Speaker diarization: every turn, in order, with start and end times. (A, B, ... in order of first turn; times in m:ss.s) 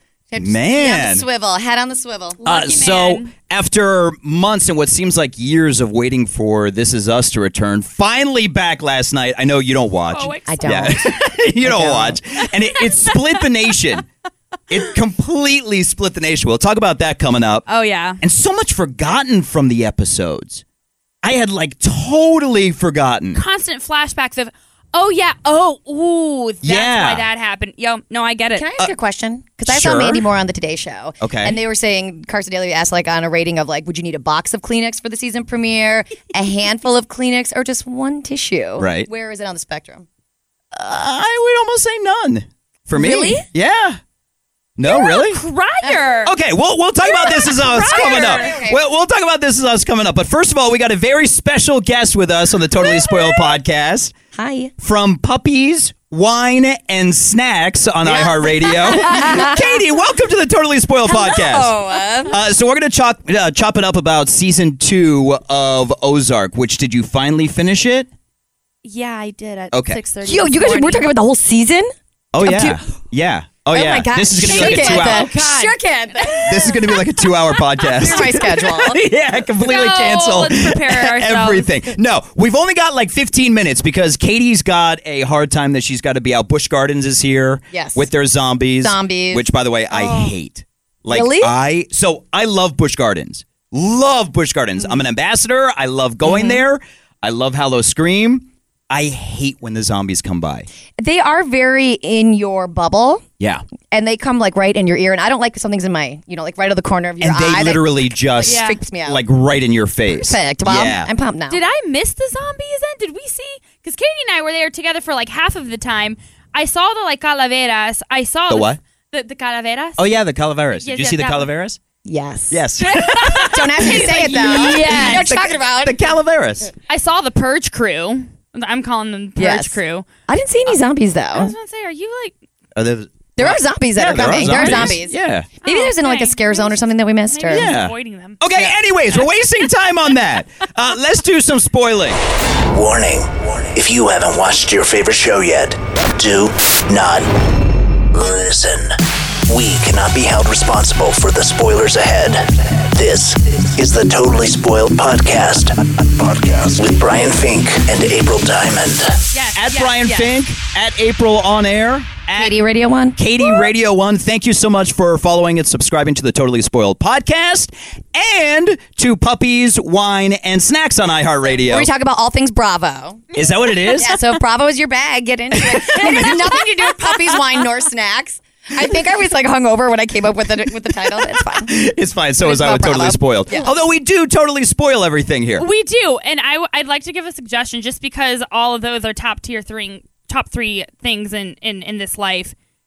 0:00.3-0:02.4 A
0:00.4-0:01.2 B
0:02.4-0:03.3 C
0:02.4-0:14.0 B
0:10.1-0:11.1 C
0:10.5-0:12.2 A
0:12.4-0:13.5 C
0:14.7-0:17.6 B
0:17.7-0:18.2 C
0:18.2-0:20.6 B
0:21.2-0:23.4 B
0:23.3-0:28.7 C
0:26.6-0:27.2 B
0:28.6-0:40.0 A
0:29.6-0:30.2 B
0:31.2-0:31.6 B
0:38.8-0:39.1 B
0:40.7-0:44.0 B
0:42.9-0:43.4 A
0:44.8-0:45.4 B
0:44.8-0:46.3 C
0:46.2-0:54.1 B
0:47.0-0:48.6 C
0:47.1-0:48.8 A
0:54.3-0:54.7 A
0:54.8-1:01.7 B
0:58.0-0:59.7 A
1:01.0-1:02.3 A
1:02.3-1:08.1 B
1:08.8-1:11.0 C
1:09.7-1:10.0 B
1:10.2-1:12.8 A
1:12.3-1:15.3 B
1:13.7-1:17.0 A
1:14.3-1:16.8 C
1:16.4-1:40.7 B
1:17.8-1:18.4 C
1:17.8-1:19.0 A
1:19.6-1:21.7 C
1:27.7-1:28.1 A
1:28.8-1:30.3 A
1:31.1-1:31.5 A
1:36.2-1:36.6 A
1:41.0-1:43.2 A
1:43.9-1:49.2 A
1:47.2-1:51.1 B
1:48.4-1:48.8 C
1:50.1-1:51.6 A
1:51.5-2:00.1 C
1:58.5-1:58.8 B
2:00.0-2:01.8 B
2:00.7-2:01.5 C
2:02.0-2:02.6 A
2:02.5-2:06.7 B
2:02.8-2:05.5 C
2:03.2-2:06.1 A
2:06.9-2:10.0 C
2:09.4-2:09.8 A
2:10.3-2:11.5 A
2:11.3-2:12.3 C
2:12.8-2:15.5 B
2:13.4-2:17.7 A
2:14.2-2:15.0 C
2:15.6-2:18.5 C
2:17.5-2:22.2 B
2:19.1-2:19.4 C
2:22.7-2:27.4 D
2:28.1-2:39.2 D
2:39.3-2:40.3 C
2:39.5-2:42.6 B
2:42.4-2:43.2 A
2:43.2-2:51.9 B
2:51.5-2:53.2 A
2:53.3-2:54.4 C
2:53.3-2:54.2 B
2:53.9-3:01.7 A
2:55.7-2:56.6 B
2:56.0-2:56.4 C
3:01.0-3:05.7 B
3:02.4-3:03.7 A
3:05.6-3:12.5 C